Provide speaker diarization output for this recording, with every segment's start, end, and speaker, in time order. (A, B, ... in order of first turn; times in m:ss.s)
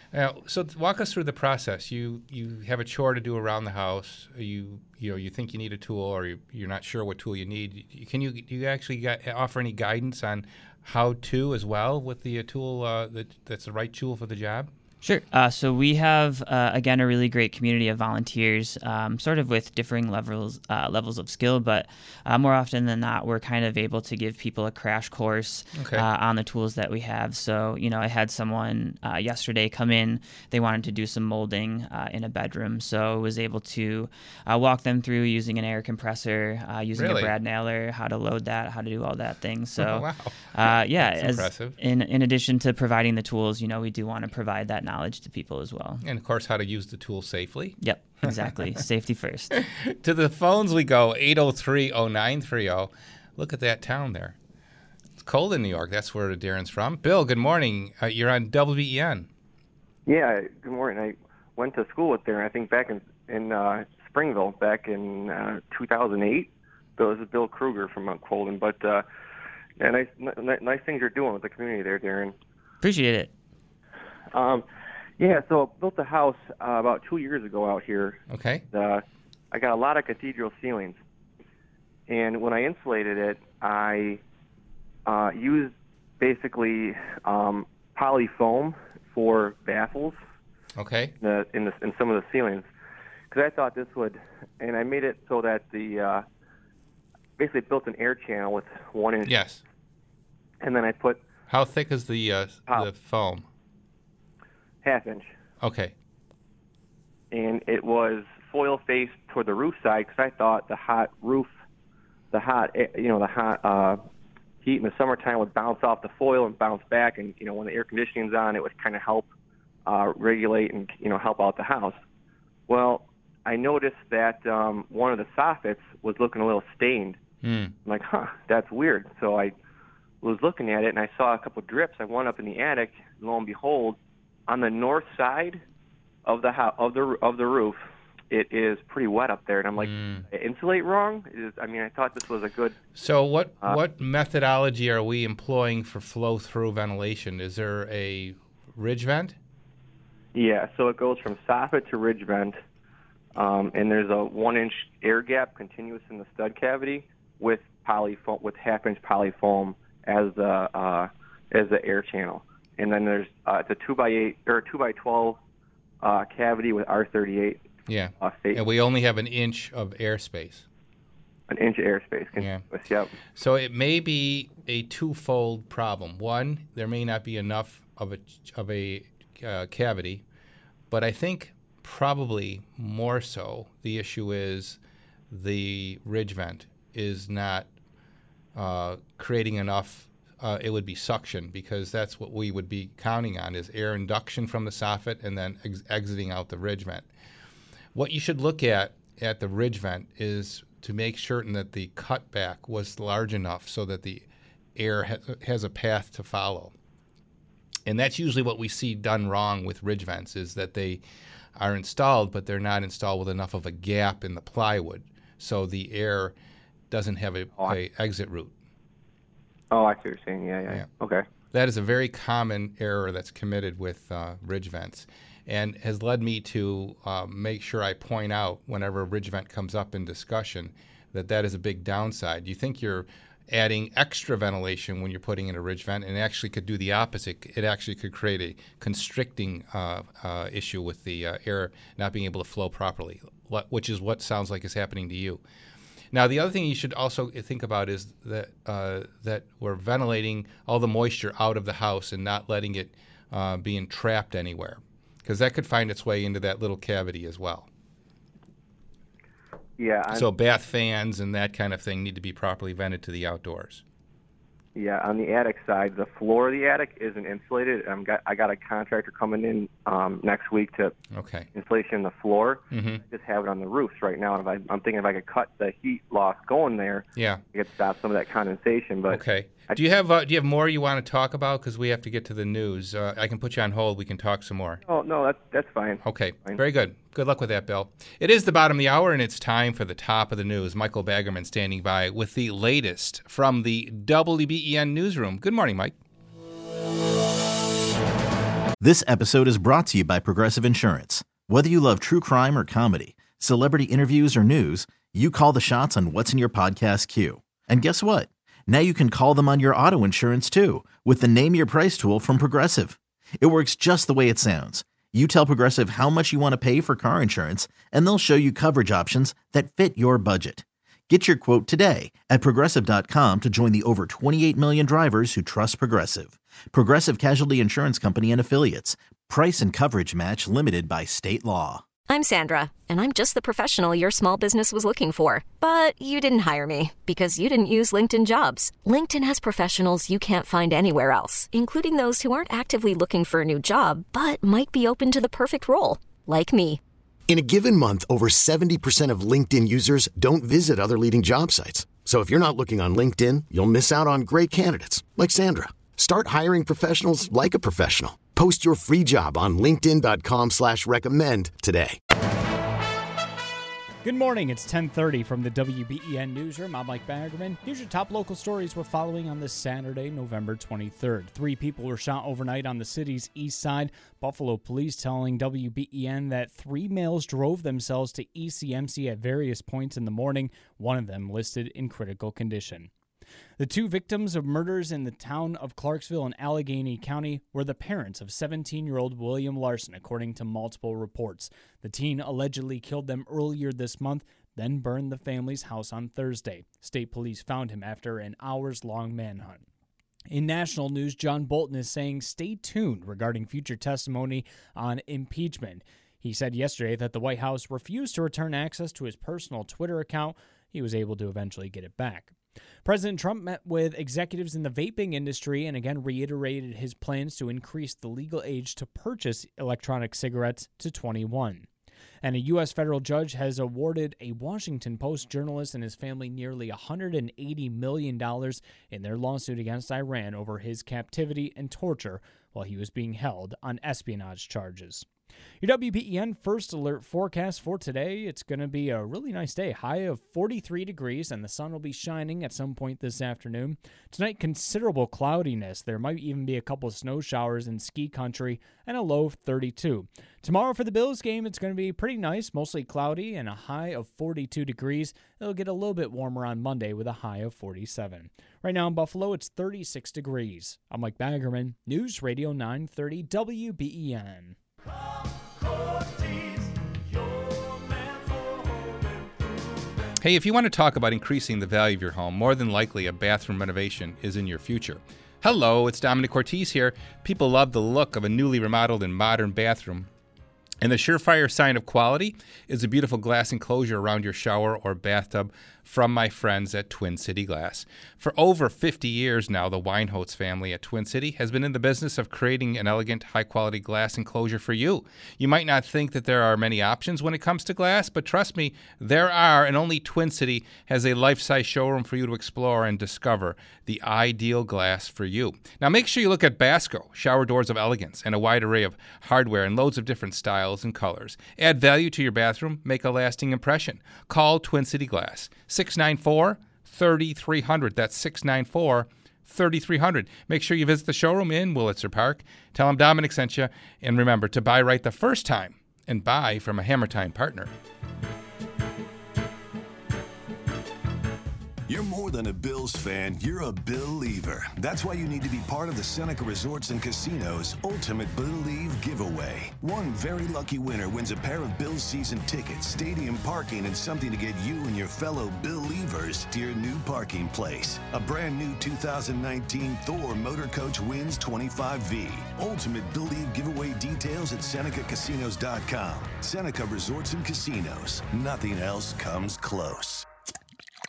0:00.1-0:14.7 A
0:15.0-0:40.0 B
0:25.8-0:26.1 A
0:37.0-0:37.3 A
0:39.8-0:41.8 A
0:40.6-0:46.0 B
0:46.0-0:48.3 A
0:47.8-0:49.6 B
0:49.5-0:54.4 A
0:55.2-0:59.3 A
1:00.1-1:09.0 C
1:09.8-1:12.3 C
1:12.8-1:13.3 B
1:14.3-1:14.6 C
1:15.2-1:18.2 C
1:18.3-1:18.6 A
1:18.7-1:21.0 C
1:22.1-1:24.2 C
1:25.1-1:30.2 C
1:30.8-1:31.1 A
1:31.2-1:32.7 C
1:33.3-1:36.2 C
1:37.4-1:39.4 C
1:39.2-1:39.6 A
1:40.6-1:41.2 C
1:41.5-1:43.5 A
1:44.8-1:45.3 C
1:45.6-1:45.9 A
1:47.3-1:51.5 C
1:52.3-1:54.0 C
1:54.6-1:59.3 C
1:59.9-2:02.0 C
2:02.7-2:07.2 C
2:07.4-2:07.7 A
2:07.8-2:09.5 C
2:10.2-2:15.6 C
2:16.3-2:17.8 C
2:18.3-2:22.8 C
2:19.8-2:20.3 A
2:23.0-2:29.4 A
2:30.4-2:32.6 C
2:33.4-2:45.4 C
2:46.0-2:47.6 C
2:47.9-2:50.7 A
2:48.2-2:48.6 C
2:51.5-2:53.1 C
2:52.4-2:52.6 A
2:53.4-3:00.2 A
3:00.9-3:04.8 A
3:05.3-3:07.7 A
3:08.6-3:17.1 A
3:18.0-3:24.2 A
3:24.8-3:26.7 A
3:27.9-3:31.0 A
3:31.6-3:36.4 A
3:36.9-3:38.5 A
3:39.7-3:41.2 C
3:41.5-4:05.4 A
4:06.1-4:17.7 A
4:19.8-4:20.3 C
4:20.1-4:23.8 A
4:24.8-4:30.9 C
4:31.1-4:31.5 A
4:31.6-4:39.2 C
4:32.7-4:33.0 A
4:37.2-4:37.4 A
4:39.1-4:44.8 A
4:44.9-4:46.6 C
4:46.0-4:55.9 A
4:58.8-5:31.8 D
5:32.1-5:46.8 E
5:47.3-6:02.0 F
6:04.0-6:22.9 G
6:23.6-6:39.6 G
6:40.3-7:01.7 G
7:02.2-7:15.1 G
7:15.6-7:44.6 G
7:50.2-8:00.1 A
8:00.8-8:47.7 A
8:51.9-9:20.3 H